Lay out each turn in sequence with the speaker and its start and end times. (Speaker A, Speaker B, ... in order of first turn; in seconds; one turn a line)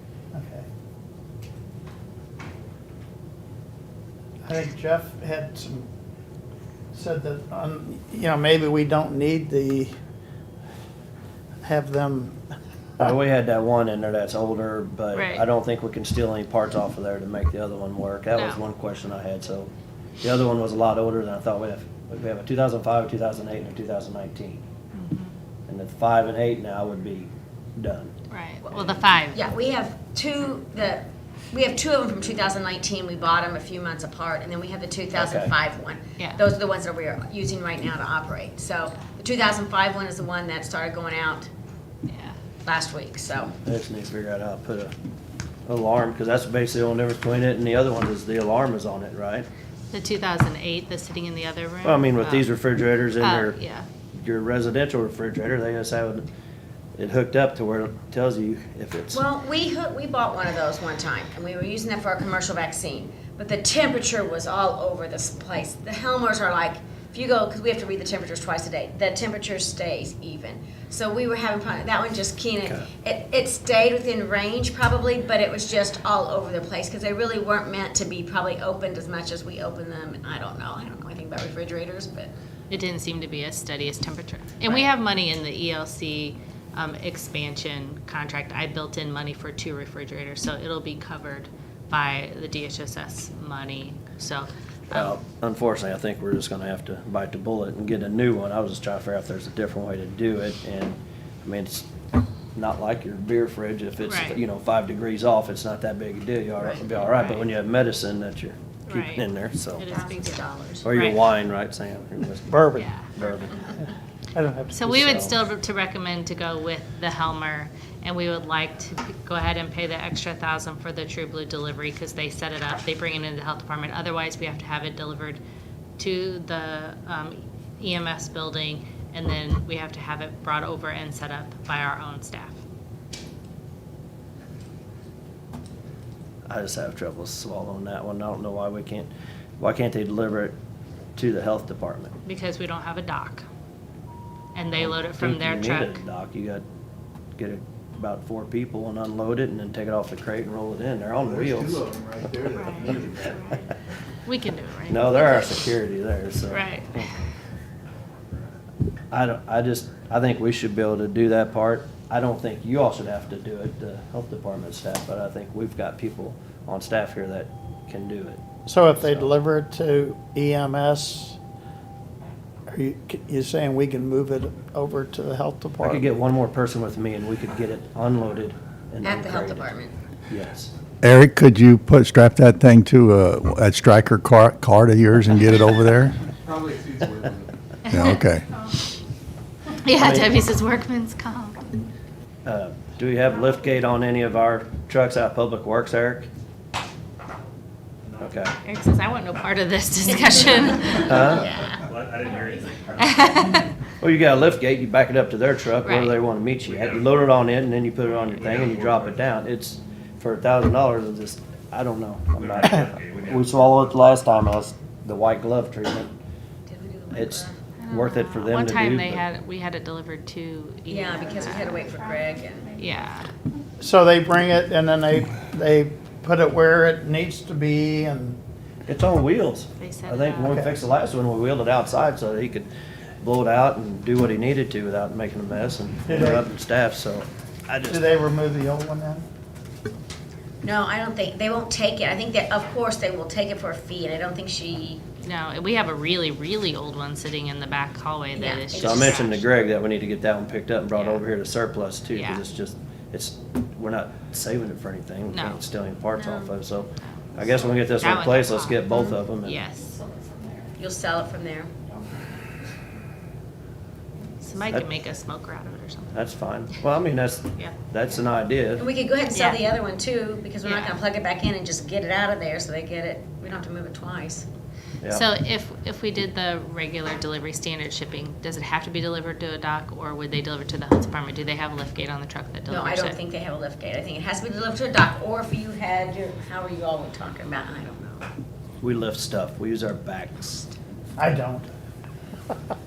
Speaker A: 0.3-0.7
Speaker A: 4.4-5.9
Speaker A: 6.9-10.0
Speaker A: 11.6-12.4
Speaker B: 13.0-24.6
Speaker C: 15.1-15.4
Speaker C: 18.3-18.6
Speaker C: 24.9-25.3
Speaker B: 25.7-28.1
Speaker C: 28.3-29.4
Speaker D: 28.6-41.5
Speaker B: 35.1-35.5
Speaker C: 42.1-42.4
Speaker D: 42.6-43.5
Speaker B: 43.5-44.9
Speaker B: 45.7-49.5
Speaker C: 49.9-52.5
Speaker B: 51.8-53.6
Speaker C: 53.2-53.9
Speaker B: 54.1-56.3
Speaker B: 57.0-59.2
Speaker D: 59.1-82.3
Speaker C: 82.7-95.2
Speaker B: 94.9-101.9
Speaker B: 102.5-109.8
Speaker C: 104.0-104.4
Speaker C: 107.1-107.4
Speaker C: 108.9-109.2
Speaker C: 109.8-111.2
Speaker D: 109.8-110.9
Speaker B: 110.8-113.7
Speaker A: 112.5-112.9
Speaker C: 112.8-113.0
Speaker A: 114.3-115.3
Speaker C: 114.7-125.4
Speaker B: 114.8-115.3
Speaker C: 126.0-132.6
Speaker B: 136.5-140.6
Speaker B: 141.2-142.2
Speaker C: 142.2-143.5
Speaker C: 144.5-146.0
Speaker B: 144.8-146.6
Speaker B: 147.4-151.8
Speaker E: 151.2-153.4
Speaker C: 152.5-153.7
Speaker B: 152.9-153.2
Speaker C: 154.2-155.7
Speaker B: 154.9-157.1
Speaker C: 156.5-157.1
Speaker B: 159.1-168.4
Speaker A: 168.7-171.4
Speaker B: 169.0-169.3
Speaker A: 172.7-176.1
Speaker B: 175.8-179.7
Speaker D: 179.0-179.9
Speaker B: 180.3-180.7
Speaker F: 181.0-186.2
Speaker E: 186.3-187.5
Speaker C: 187.9-188.2
Speaker F: 187.9-188.4
Speaker C: 189.8-191.9
Speaker B: 189.9-190.4
Speaker B: 192.4-196.3
Speaker B: 198.2-198.6
Speaker C: 198.6-201.5
Speaker D: 200.4-201.8
Speaker B: 201.0-201.5
Speaker G: 201.8-203.1
Speaker C: 203.0-203.7
Speaker B: 204.0-216.1
Speaker C: 205.8-206.2
Speaker G: 206.6-207.3
Speaker G: 208.3-209.2
Speaker G: 212.4-213.9
Speaker D: 216.7-217.6
Speaker B: 217.1-219.2
Speaker C: 217.8-221.8
Speaker D: 220.9-222.8
Speaker C: 222.8-223.3
Speaker A: 223.8-228.4
Speaker B: 228.9-232.7
Speaker C: 229.8-230.6
Speaker B: 233.2-238.1
Speaker A: 236.1-236.4
Speaker A: 237.9-239.3
Speaker D: 240.6-245.0
Speaker C: 245.2-249.4
Speaker D: 248.3-249.2
Speaker B: 248.7-259.6
Speaker C: 250.9-251.2
Speaker C: 252.1-252.4
Speaker C: 255.3-255.6
Speaker D: 256.2-256.5
Speaker C: 258.0-258.9
Speaker D: 258.9-259.2
Speaker C: 259.4-260.0
Speaker D: 260.8-261.7
Speaker C: 264.4-266.2
Speaker B: 266.1-268.8
Speaker D: 268.8-274.4
Speaker C: 269.3-269.6
Speaker C: 270.6-271.0
Speaker C: 275.1-283.2
Speaker D: 282.7-288.2
Speaker B: 288.8-290.7
Speaker A: 291.2-291.7